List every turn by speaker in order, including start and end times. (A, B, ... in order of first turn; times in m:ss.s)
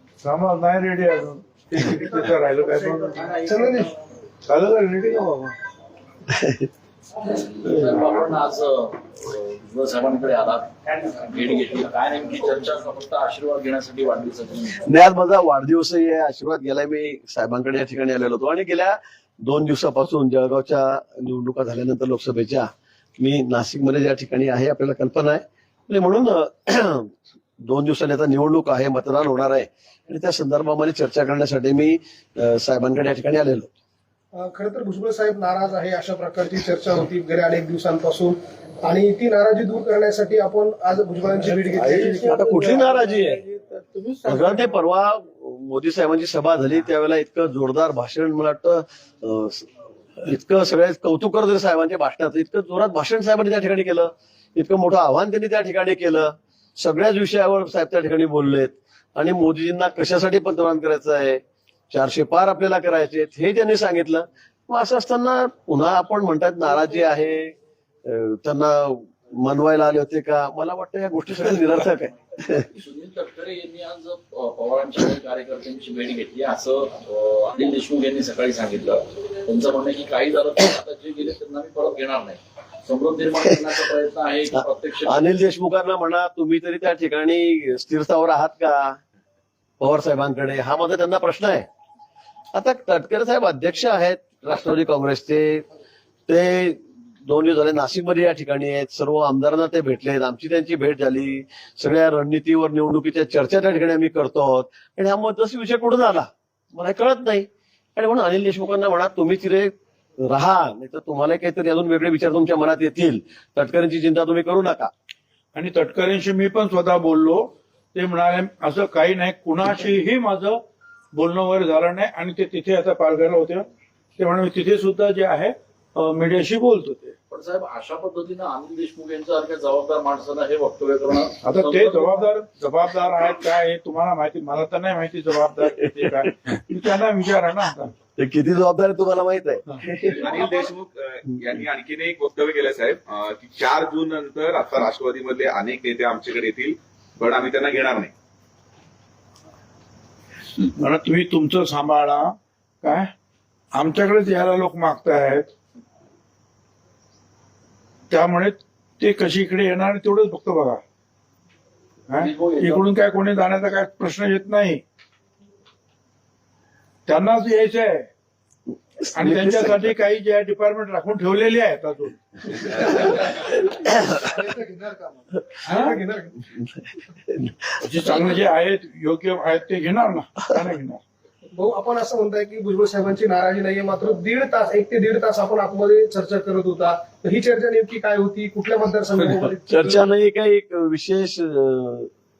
0:00.2-0:03.4 A
0:03.3-0:03.9 B
0:04.4-0:05.6 A
0:06.3-0:06.7 C
0:07.2-0:14.8 D
0:14.8-0:33.7 C
0:34.3-0:42.4 B
0:41.4-0:44.7 A
0:41.8-0:43.4 C
0:44.2-1:12.7 C
1:12.5-1:25.2 D
1:24.5-1:29.0 C
1:29.8-1:31.6 C
1:32.5-1:35.6 C
1:36.3-1:54.9 C
1:55.5-2:07.1 A
2:07.3-2:12.2 D
2:11.4-2:17.9 A
2:18.2-2:20.5 C
2:20.2-2:28.1 E
2:30.6-2:33.1 A
2:33.7-2:35.4 A
2:38.1-2:40.8 A
2:42.1-2:44.8 A
2:42.1-2:42.9 D
2:47.1-2:48.1 A
2:49.0-2:49.9 C
2:49.2-2:53.2 A
2:53.0-2:56.4 B
2:53.7-2:54.2 C
2:55.6-2:56.0 A
2:56.5-2:58.0 C
2:57.8-3:01.0 A
3:01.5-3:10.1 B
3:09.7-3:12.1 C